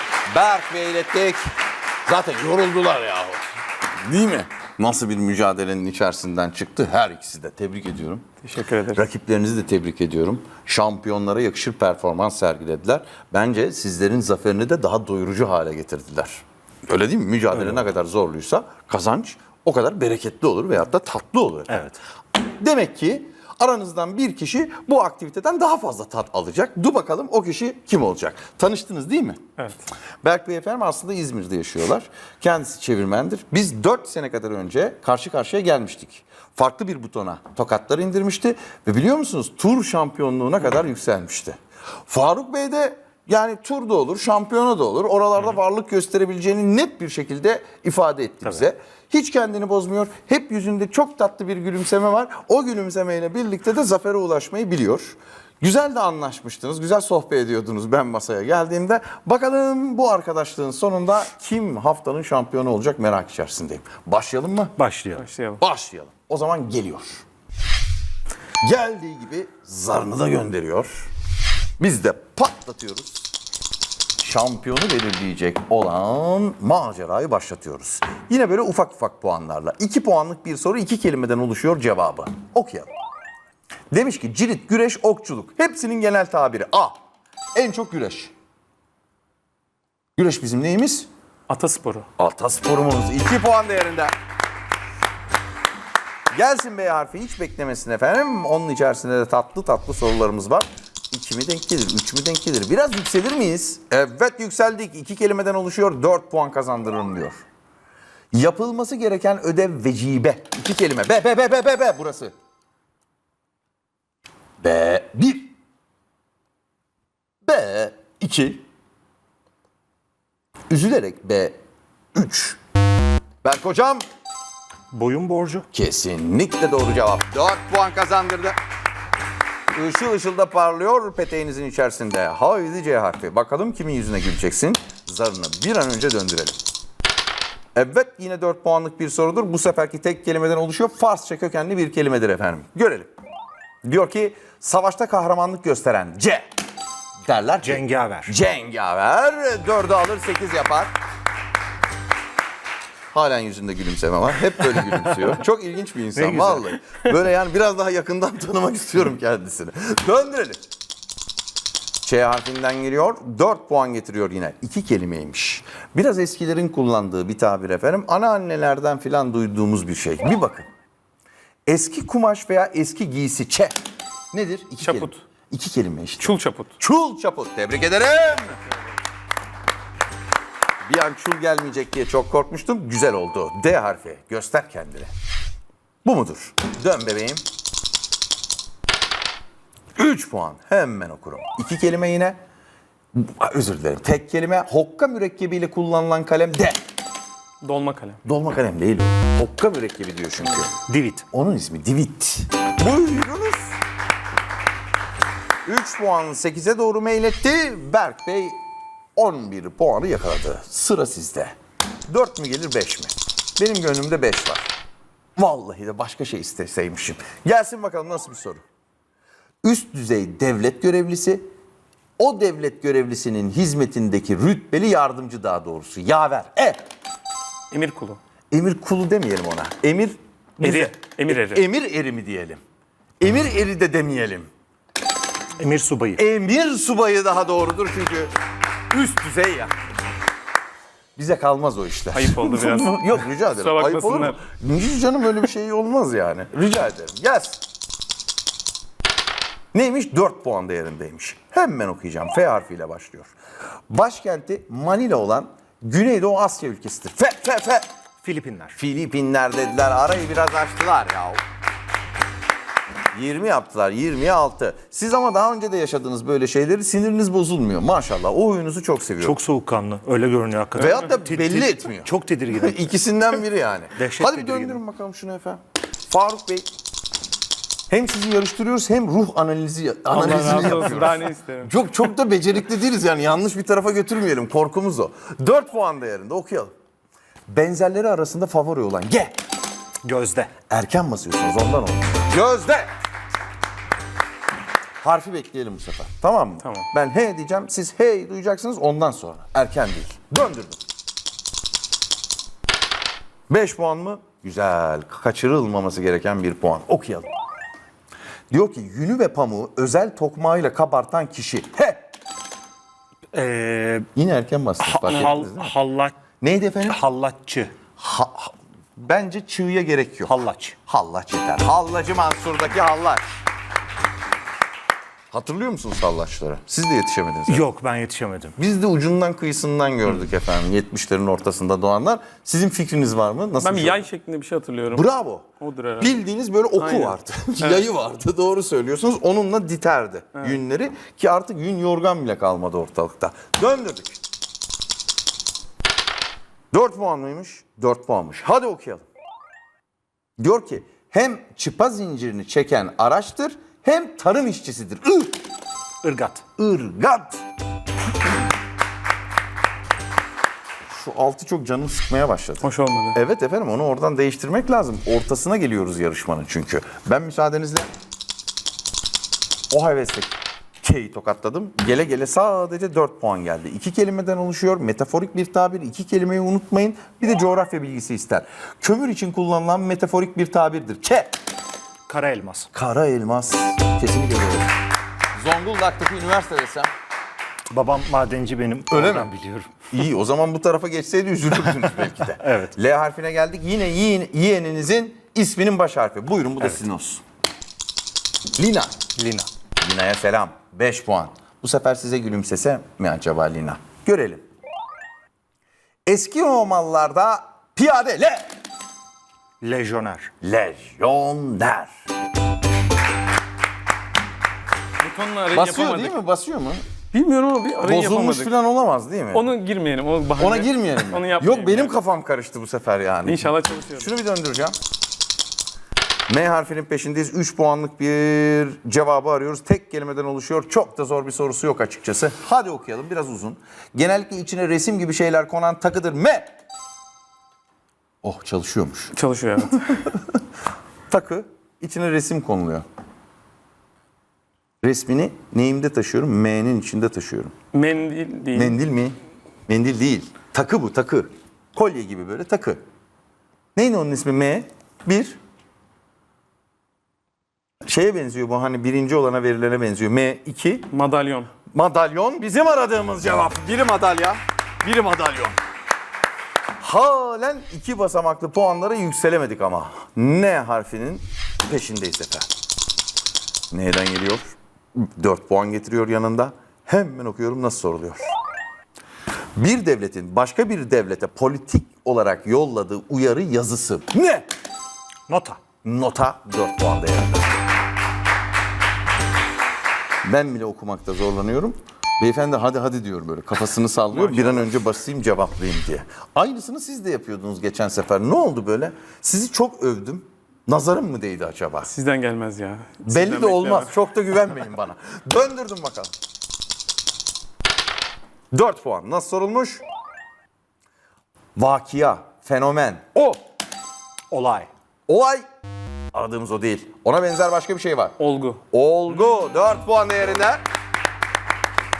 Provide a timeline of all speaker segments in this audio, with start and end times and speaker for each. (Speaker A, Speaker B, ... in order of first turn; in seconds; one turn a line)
Speaker A: 0.3-1.5
Speaker A: 2.1-3.4
Speaker A: 4.0-8.3
Speaker B: 8.4-9.0
Speaker A: 8.9-21.7
Speaker C: 21.7-22.0
Speaker A: 22.5-29.4
Speaker A: 30.2-64.8
Speaker C: 64.8-65.3
Speaker B: 65.2-65.6
Speaker A: 65.6-67.2
Speaker A: 68.6-71.1
Speaker A: 71.8-73.3
Speaker A: 74.2-82.9
Speaker A: 83.9-86.9
Speaker A: 87.5-88.3
Speaker A: 90.2-91.1
Speaker B: 91.5-92.1
Speaker A: 92.2-94.1
Speaker A: 96.3-107.4
Speaker A: 108.3-112.3
Speaker A: 114.6-115.5
Speaker A: 117.4-118.7
Speaker A: 120.7-121.6
Speaker A: 122.2-122.6
Speaker A: 123.4-124.0
Speaker C: 124.9-125.7
Speaker A: 125.7-128.6
Speaker A: 129.8-136.6
Speaker A: 137.8-143.1
Speaker A: 143.8-146.5
Speaker A: 147.2-150.9
Speaker C: 147.6-148.3
Speaker A: 153.1-160.6
Speaker C: 156.2-156.7
Speaker A: 162.0-170.7
Speaker A: 171.7-173.7
Speaker A: 174.3-178.6
Speaker B: 174.8-175.2
Speaker B: 176.2-176.8
Speaker A: 180.9-185.1
Speaker A: 186.1-187.4
Speaker A: 190.0-192.4
Speaker A: 193.1-196.8
Speaker B: 197.6-198.2
Speaker A: 198.2-200.7
Speaker C: 200.9-201.2
Speaker A: 201.3-203.8
Speaker A: 205.7-208.6
Speaker A: 209.2-211.5
Speaker A: 212.1-214.7
Speaker A: 215.4-218.6
Speaker A: 219.6-221.4
Speaker A: 222.2-226.8
Speaker B: 227.7-228.2
Speaker A: 228.5-232.6
Speaker B: 230.6-231.6
Speaker A: 233.2-234.5
Speaker C: 235.6-236.2
Speaker A: 236.2-238.3
Speaker A: 238.9-239.7
Speaker A: 241.2-247.6
Speaker B: 242.1-244.4
Speaker A: 249.7-253.4
Speaker A: 253.9-257.9
Speaker C: 258.2-258.8
Speaker A: 258.8-261.4
Speaker A: 263.1-269.4
Speaker C: 269.2-272.8
Speaker A: 270.8-276.7
Speaker C: 274.0-274.8
Speaker A: 277.9-286.7
Speaker B: 280.1-281.7
Speaker C: 280.1-281.0
Speaker A: 287.5-289.4
Speaker C: 290.0-290.5
Speaker A: 290.7-292.9
Speaker A: 295.0-300.8
Speaker B: 296.6-296.9
Speaker A: 303.5-307.3
Speaker A: 308.5-312.0
Speaker C: 313.3-314.1
Speaker A: 314.1-315.7
Speaker C: 314.8-316.2
Speaker A: 316.4-317.0
Speaker C: 316.9-317.8
Speaker A: 318.0-320.4
Speaker C: 320.3-320.8
Speaker A: 320.9-323.2
Speaker A: 325.3-327.7
Speaker C: 327.5-328.6
Speaker A: 328.6-334.1
Speaker B: 333.6-336.2
Speaker A: 334.9-335.5
Speaker A: 336.0-344.2
Speaker B: 336.8-337.9
Speaker A: 346.7-349.1
Speaker A: 350.4-355.4
Speaker C: 356.0-356.4
Speaker A: 356.6-357.4
Speaker A: 360.9-367.9
Speaker B: 362.6-363.2
Speaker A: 369.7-381.3
Speaker C: 382.1-382.7
Speaker A: 382.7-384.7
Speaker A: 385.4-386.9
Speaker C: 387.7-389.7
Speaker A: 388.9-389.3
Speaker A: 389.9-397.2
Speaker C: 392.4-392.7
Speaker A: 398.6-399.0
Speaker C: 399.2-399.5
Speaker A: 399.8-404.4
Speaker A: 406.1-408.5
Speaker C: 409.6-410.3
Speaker A: 410.4-411.9
Speaker B: 415.0-416.1
Speaker A: 415.5-416.8
Speaker B: 417.1-418.5
Speaker A: 417.8-419.5
Speaker B: 419.3-421.9
Speaker A: 420.4-424.8
Speaker B: 423.2-424.1
Speaker A: 426.3-436.5
Speaker A: 438.2-439.1
Speaker B: 439.1-440.0
Speaker A: 441.1-442.9
Speaker A: 444.8-447.5
Speaker B: 447.7-448.8
Speaker A: 448.5-449.2
Speaker A: 449.7-452.8
Speaker A: 453.8-455.4
Speaker A: 457.9-460.9
Speaker B: 460.9-461.5
Speaker A: 461.7-465.6
Speaker A: 466.8-472.5
Speaker A: 473.7-478.3
Speaker A: 479.6-484.5
Speaker C: 485.3-485.6
Speaker A: 485.8-487.5
Speaker A: 490.2-501.9
Speaker B: 494.1-494.7
Speaker B: 501.9-504.0
Speaker A: 503.1-506.1
Speaker A: 508.5-509.8
Speaker A: 511.6-513.4
Speaker C: 514.3-514.7
Speaker A: 515.1-515.4
Speaker A: 516.1-518.1
Speaker B: 518.2-518.6
Speaker A: 518.7-520.6